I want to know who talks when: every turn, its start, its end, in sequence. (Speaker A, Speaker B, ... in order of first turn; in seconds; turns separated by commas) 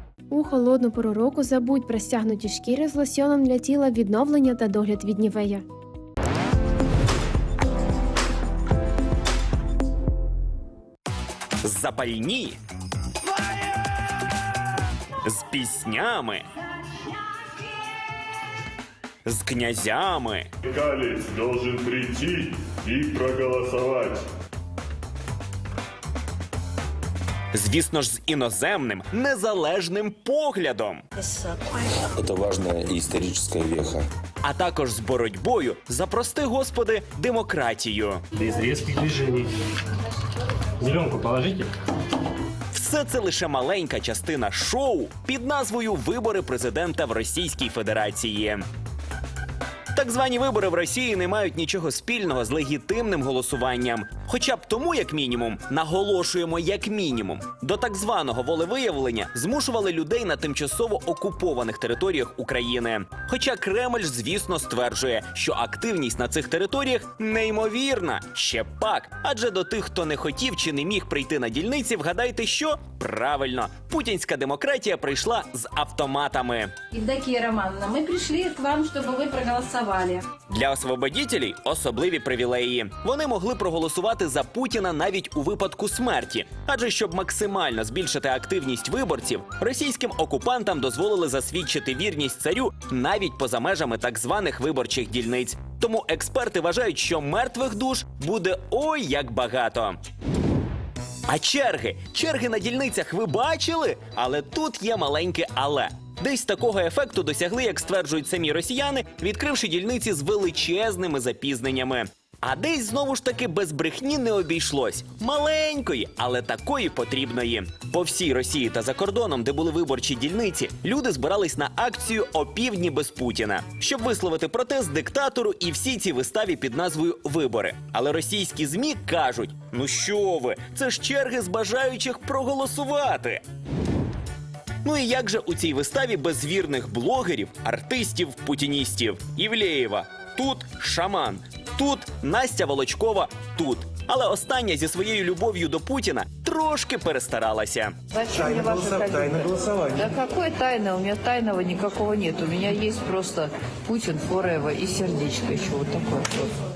Speaker A: 0.3-5.6, Speaker B: 11.6-12.6, Speaker B: 15.2-16.4, Speaker B: 19.3-20.5, Speaker C: 20.7-24.2, Speaker B: 27.5-31.0, Speaker D: 32.1-34.0, Speaker B: 34.4-38.2, Speaker E: 38.4-39.5, Speaker E: 40.8-41.7, Speaker B: 42.7-48.6, Speaker B: 50.0-76.8, Speaker F: 76.9-80.2, Speaker B: 80.5-100.0, Speaker B: 101.3-133.4, Speaker B: 134.8-147.9, Speaker G: 148.1-156.5